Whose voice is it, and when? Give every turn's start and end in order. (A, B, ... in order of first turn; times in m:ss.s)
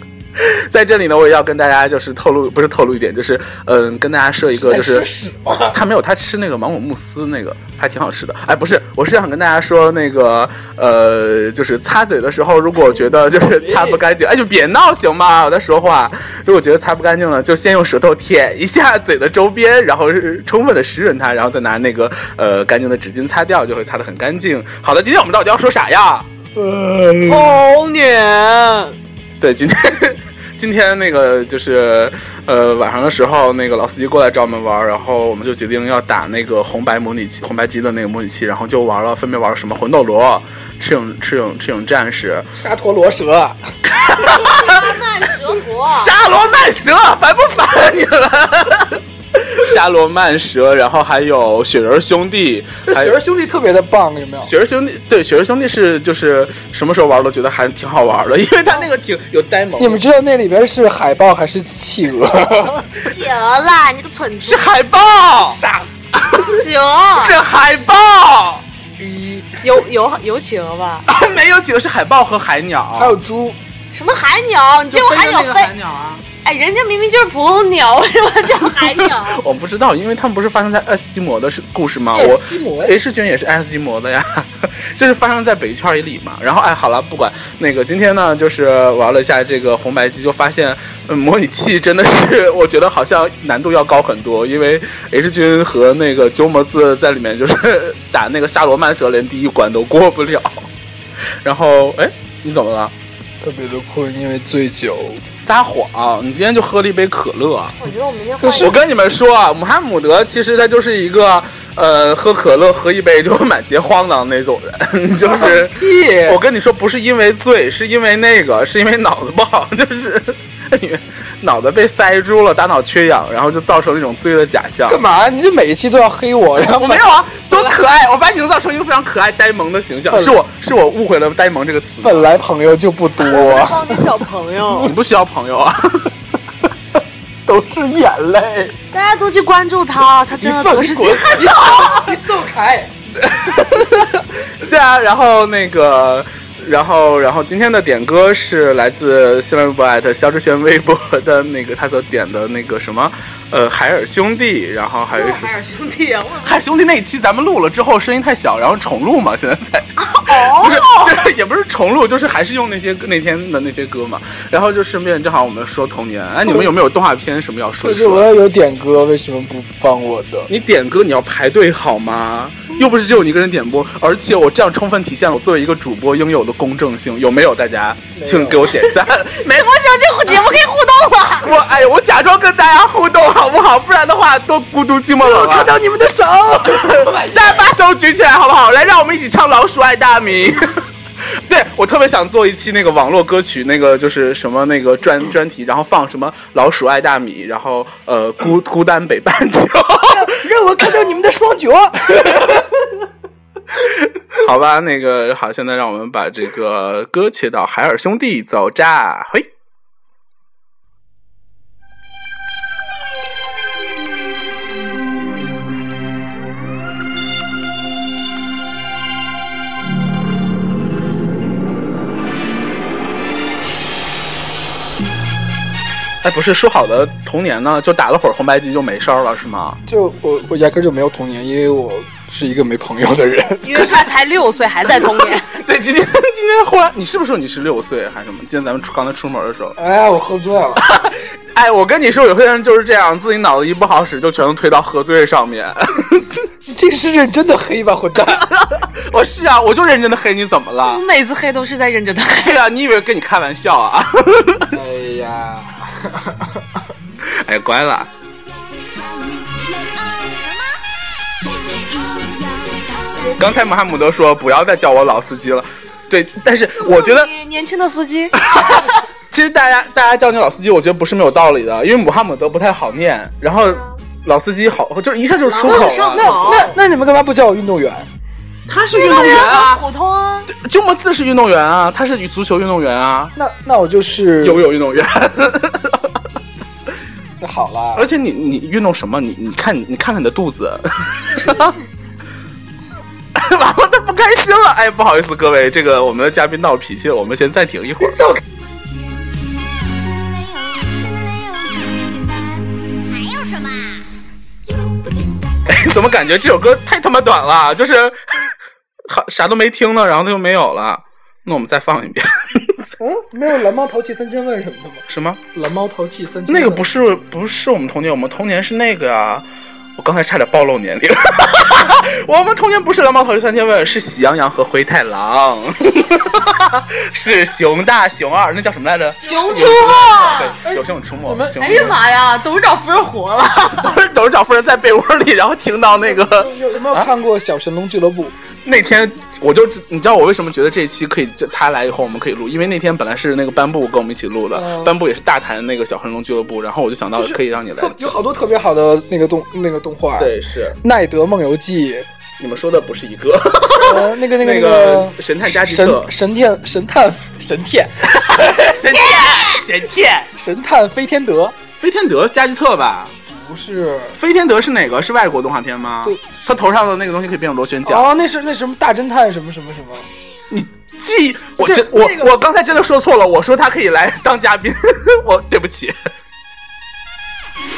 0:00.4-0:05.1 A
0:04.5-0:05.8 B
0:05.7-0:27.6 A
0:12.9-0:14.0 B
0:27.2-0:29.0 C
0:29.4-0:42.5 A
0:42.5-0:43.6 B
0:43.9-0:44.9 A
0:43.9-0:46.1 C
0:45.9-0:53.2 A
0:52.9-0:54.5 B
0:54.4-1:00.0 A
0:59.8-1:02.9 B
1:03.0-1:04.6 C
1:04.4-1:05.6 A
1:05.4-1:05.9 B
1:06.3-1:07.3 C
1:07.1-1:08.6 A
1:09.0-1:09.5 B
1:09.6-1:11.0 C
1:11.1-1:13.2 A
1:12.9-1:13.6 B
1:13.9-1:15.7 C
1:14.9-1:16.2 A
1:16.4-1:19.4 C
1:18.9-1:40.7 A
1:22.1-1:22.9 B
1:41.4-1:42.9 A
1:43.4-1:45.2 B
1:45.4-1:47.7 A
1:47.7-1:48.7 C
1:48.4-2:05.0 A
1:55.2-1:56.4 B
2:04.9-2:07.0 B
2:06.7-2:12.3 A
2:10.1-2:10.4 B
2:12.0-2:14.0 B
2:13.2-2:14.9 C
2:14.6-2:16.1 A
2:17.5-2:18.7 A
2:18.9-2:21.6 C
2:20.4-2:22.9 B
2:21.3-2:22.1 A
2:23.2-2:35.5 A
2:35.1-2:36.6 C
2:36.4-2:48.3 A
2:40.1-2:41.3 C
2:47.8-2:50.5 B
2:50.5-2:59.7 A
2:58.1-2:58.7 B
2:58.7-3:01.5 C
3:01.4-3:05.7 A
3:05.2-3:07.7 B
3:06.6-3:20.4 A
3:20.2-3:22.7 B
3:24.3-3:29.5 A
3:46.2-3:49.8 A
3:49.9-3:53.9 B
3:53.6-3:55.5 C
3:55.0-3:59.8 A
3:59.8-4:00.8 B
4:00.8-4:06.5 A
4:06.6-4:08.5 B
4:08.2-4:11.0 A
4:10.8-4:12.6 C
4:12.4-4:14.8 A
4:14.7-4:16.9 B
4:17.2-4:18.1 A
4:18.4-4:24.0 D
4:23.4-4:27.3 A
4:26.8-4:28.9 C
4:28.4-4:36.7 A
4:35.5-4:36.7 C
4:36.0-4:38.1 B
4:38.7-4:39.8 A
4:38.9-4:40.5 C
4:40.5-4:43.3 A
4:43.3-4:44.7 B
4:44.4-4:46.1 A
4:47.4-4:48.1 B
4:47.9-4:51.8 A
4:53.3-4:58.4 A
4:58.4-5:04.1 D
5:04.6-5:06.4 D
5:05.7-5:08.5 A
5:09.1-5:12.9 A
5:13.0-5:15.0 B
5:15.1-5:15.4 A
5:15.5-5:16.8 B
5:16.5-5:19.4 A
5:20.0-5:32.0 A
5:29.2-5:30.6 C
5:29.3-5:31.9 B
5:31.6-5:33.9 C
5:33.8-5:37.1 A
5:36.0-5:38.3 B
5:38.6-5:48.1 A
5:44.5-5:45.0 B
5:47.1-5:52.1 B
5:50.2-5:50.8 A
5:52.4-5:56.1 A
5:53.8-5:58.4 B
5:58.1-6:00.3 A
5:58.9-5:59.6 D
6:00.3-6:01.6 B
6:01.8-6:03.1 A
6:03.3-6:04.2 B
6:04.2-6:08.1 A
6:06.0-6:06.4 B
6:07.8-6:10.1 B
6:10.5-6:16.0 A
6:11.6-6:12.4 B